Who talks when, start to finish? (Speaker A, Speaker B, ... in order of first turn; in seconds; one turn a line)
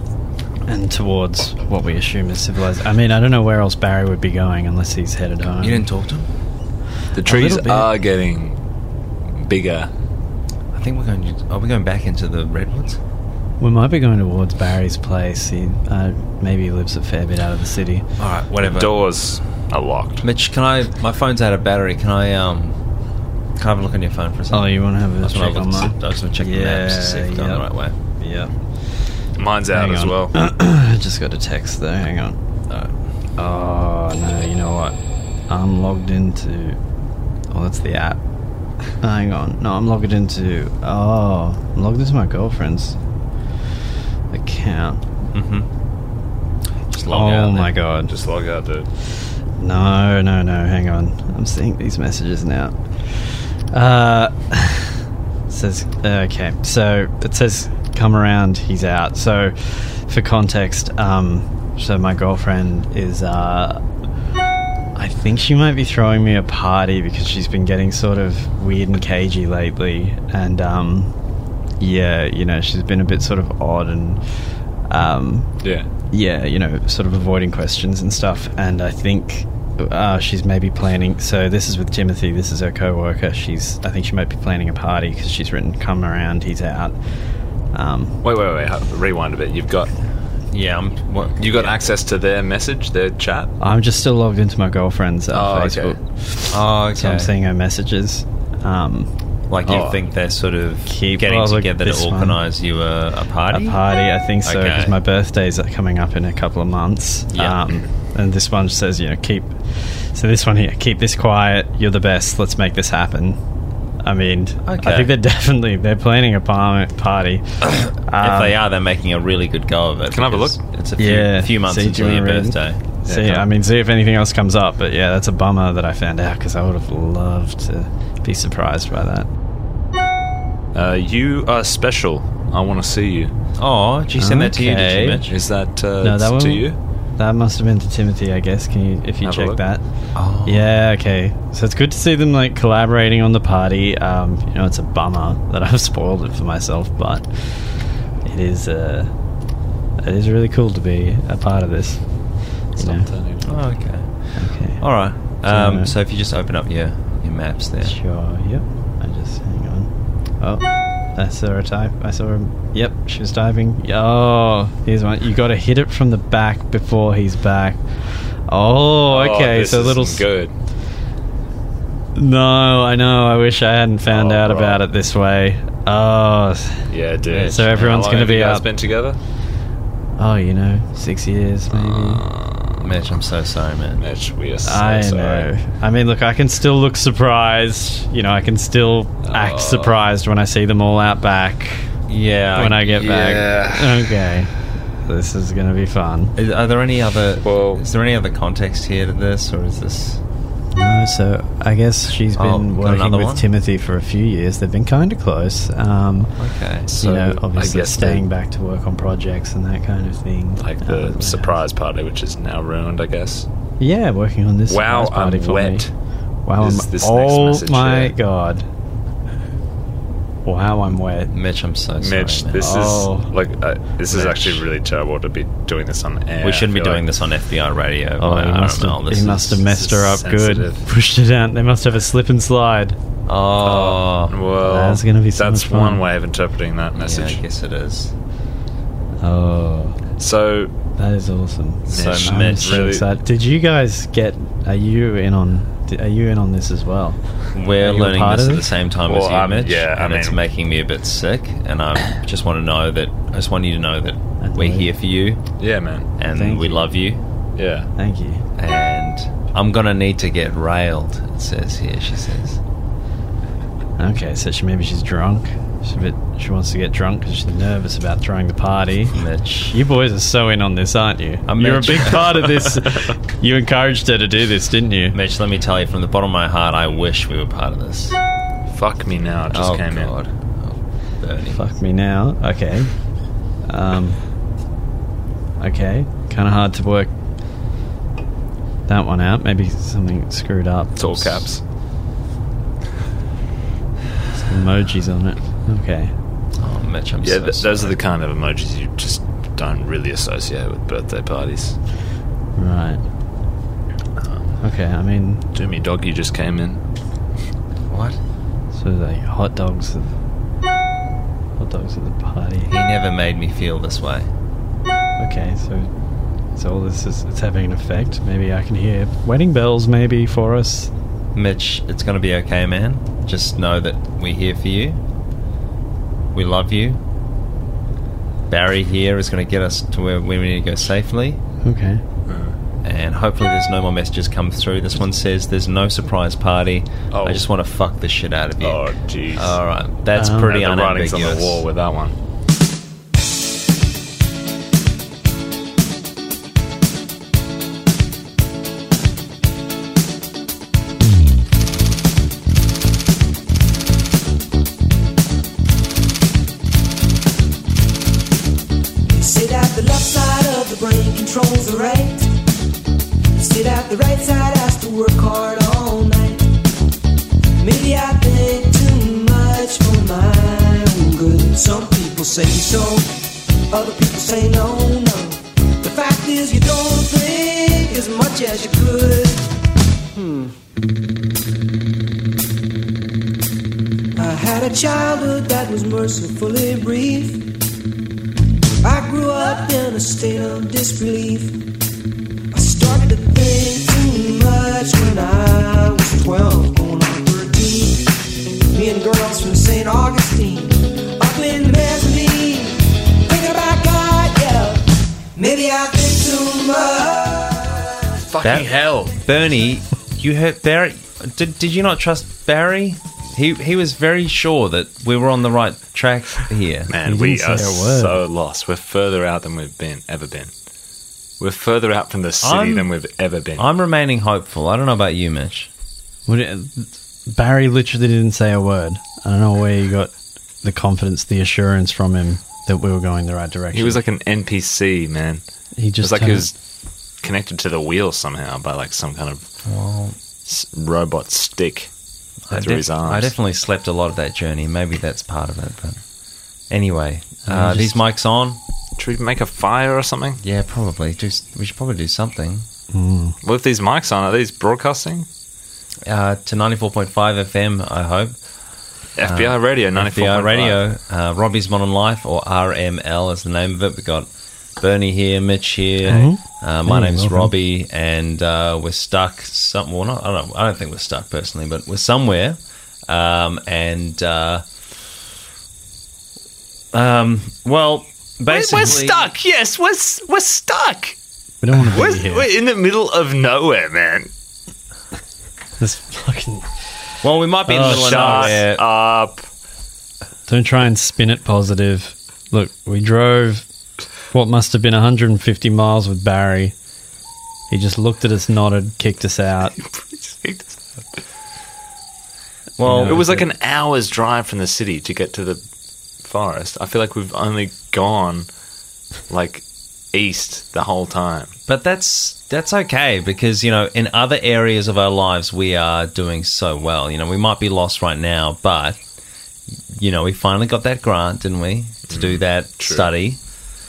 Speaker A: 0.7-5.8
Speaker B: 5.6-6.3
Speaker C: 7.1-8.6
Speaker A: 7.2-7.9
Speaker C: 9.3-9.9
Speaker B: 10.7-13.0
Speaker A: 13.6-18.1
Speaker B: 18.2-18.9
Speaker C: 18.6-20.2
Speaker B: 20.2-22.8
Speaker B: 23.6-27.9
Speaker A: 24.5-27.6
Speaker A: 28.2-28.5
Speaker C: 29.4-30.3
Speaker A: 29.7-32.4
Speaker A: 33.4-35.0
Speaker A: 35.5-36.8
Speaker A: 37.5-38.2
Speaker A: 39.0-43.0
Speaker A: 44.3-45.0
Speaker B: 45.3-45.7
Speaker B: 46.9-47.7
Speaker A: 47.1-48.1
Speaker C: 48.1-48.9
Speaker A: 49.6-63.8
Speaker A: 64.9-71.1
Speaker A: 71.8-87.2
Speaker C: 75.6-75.9
Speaker A: 87.7-88.2
Speaker C: 88.2-89.9
Speaker B: 90.5-91.8
Speaker C: 91.4-93.5
Speaker A: 93.6-99.1
Speaker C: 95.3-96.0
Speaker B: 96.5-97.3
Speaker B: 99.5-103.8
Speaker C: 99.6-100.0
Speaker A: 100.9-102.4
Speaker A: 103.5-113.4
Speaker B: 104.4-104.9
Speaker B: 107.3-107.6
Speaker A: 114.0-118.6
Speaker B: 114.6-115.1
Speaker B: 117.7-122.8
Speaker C: 120.1-120.6
Speaker A: 121.0-129.3
Speaker C: 123.0-123.4
Speaker C: 130.7-133.3
Speaker B: 133.6-135.3
Speaker A: 134.2-135.2
Speaker C: 135.3-136.8
Speaker A: 136.0-139.8
Speaker C: 139.2-139.6
Speaker B: 140.1-140.7
Speaker A: 140.4-149.1
Speaker A: 150.0-153.1
Speaker C: 152.8-153.6
Speaker B: 153.4-157.9
Speaker A: 154.3-155.9
Speaker A: 157.8-170.3
Speaker C: 169.1-170.5
Speaker A: 172.1-176.9
Speaker C: 174.1-174.8
Speaker C: 176.9-179.2
Speaker B: 177.3-178.0
Speaker A: 177.4-178.7
Speaker A: 180.2-182.2
Speaker C: 181.7-183.2
Speaker B: 182.8-184.0
Speaker C: 184.0-185.5
Speaker A: 184.6-191.9
Speaker C: 189.2-189.9
Speaker B: 192.1-193.4
Speaker A: 192.6-196.3
Speaker C: 192.9-194.1
Speaker B: 196.3-200.2
Speaker C: 197.4-197.8
Speaker A: 200.7-206.3
Speaker B: 202.3-203.5
Speaker B: 206.4-206.9
Speaker C: 206.9-208.2
Speaker A: 207.0-211.6
Speaker C: 210.6-213.5
Speaker A: 213.8-215.9
Speaker C: 214.7-215.9
Speaker A: 216.4-218.7
Speaker C: 216.6-218.2
Speaker A: 220.4-221.3
Speaker B: 221.3-222.7
Speaker C: 222.0-227.0
Speaker A: 222.6-223.3
Speaker B: 224.1-224.6
Speaker B: 226.4-229.6
Speaker A: 228.2-233.0
Speaker C: 229.6-230.9
Speaker B: 233.3-234.3
Speaker C: 233.6-237.4
Speaker A: 234.6-236.0
Speaker B: 237.0-238.1
Speaker A: 239.2-240.0
Speaker C: 240.2-240.7
Speaker A: 241.0-247.2
Speaker B: 241.9-242.8
Speaker C: 241.9-243.1
Speaker B: 247.5-255.4
Speaker A: 247.8-248.7
Speaker C: 249.1-250.4
Speaker A: 254.4-254.9
Speaker C: 255.6-256.1
Speaker B: 256.2-257.2
Speaker A: 256.3-256.9
Speaker C: 257.6-257.9
Speaker A: 258.0-258.4
Speaker B: 258.6-262.6
Speaker A: 264.0-269.2
Speaker B: 269.1-269.8
Speaker A: 269.7-275.1
Speaker B: 271.5-272.7
Speaker B: 275.1-278.2
Speaker C: 278.7-280.1
Speaker B: 279.5-281.6
Speaker A: 281.5-283.0
Speaker A: 283.6-284.2
Speaker A: 285.6-287.1
Speaker A: 288.9-291.4
Speaker C: 290.9-291.6
Speaker A: 294.3-296.1
Speaker B: 296.6-298.0
Speaker C: 297.2-301.8
Speaker A: 302.6-303.0
Speaker C: 304.2-304.4
Speaker A: 304.6-305.4
Speaker C: 305.5-306.8
Speaker B: 307.9-308.2
Speaker A: 308.7-310.1
Speaker A: 311.6-312.7
Speaker B: 312.7-314.3
Speaker A: 315.2-315.9
Speaker A: 316.5-320.9
Speaker B: 321.3-325.0
Speaker B: 326.3-327.0
Speaker B: 328.5-331.4
Speaker A: 331.6-332.0
Speaker C: 332.3-332.6
Speaker B: 332.8-341.6
Speaker C: 337.1-337.4
Speaker C: 338.6-339.6
Speaker A: 340.1-340.5
Speaker C: 340.3-342.1
Speaker D: 359.1-362.3
Speaker D: 363.3-366.5
Speaker D: 367.6-373.1
Speaker D: 373.7-379.5
Speaker D: 384.1-387.5
Speaker D: 388.8-391.6
Speaker D: 392.5-408.0
Speaker C: 408.2-409.1
Speaker B: 408.4-416.9
Speaker C: 416.9-420.5
Speaker A: 417.0-418.2
Speaker C: 421.4-423.7
Speaker B: 422.4-422.9
Speaker B: 423.6-425.7
Speaker A: 426.3-434.0
Speaker C: 433.7-435.4
Speaker A: 435.8-436.5
Speaker C: 436.0-436.5
Speaker C: 437.2-439.5
Speaker B: 439.6-440.2
Speaker C: 440.4-441.9
Speaker B: 442.5-446.0
Speaker C: 442.5-443.3
Speaker B: 446.7-448.6
Speaker A: 447.4-447.9
Speaker C: 449.0-450.4
Speaker B: 450.4-452.6
Speaker A: 452.9-453.4
Speaker C: 453.4-455.3
Speaker B: 456.1-458.3
Speaker C: 459.1-460.8
Speaker B: 459.2-474.6
Speaker A: 466.1-467.5
Speaker B: 476.9-479.3
Speaker C: 478.5-481.2
Speaker A: 481.6-482.5
Speaker C: 481.7-484.3
Speaker A: 485.8-486.7
Speaker B: 487.2-488.8
Speaker A: 487.7-488.6
Speaker C: 487.7-489.5
Speaker A: 490.5-493.6
Speaker A: 494.3-496.7
Speaker A: 497.7-499.8
Speaker C: 499.8-501.1
Speaker B: 502.8-503.4
Speaker A: 502.8-503.2
Speaker C: 503.0-505.6
Speaker C: 506.2-508.5
Speaker C: 509.3-511.5
Speaker B: 511.7-519.0
Speaker B: 519.9-523.4
Speaker C: 522.1-523.1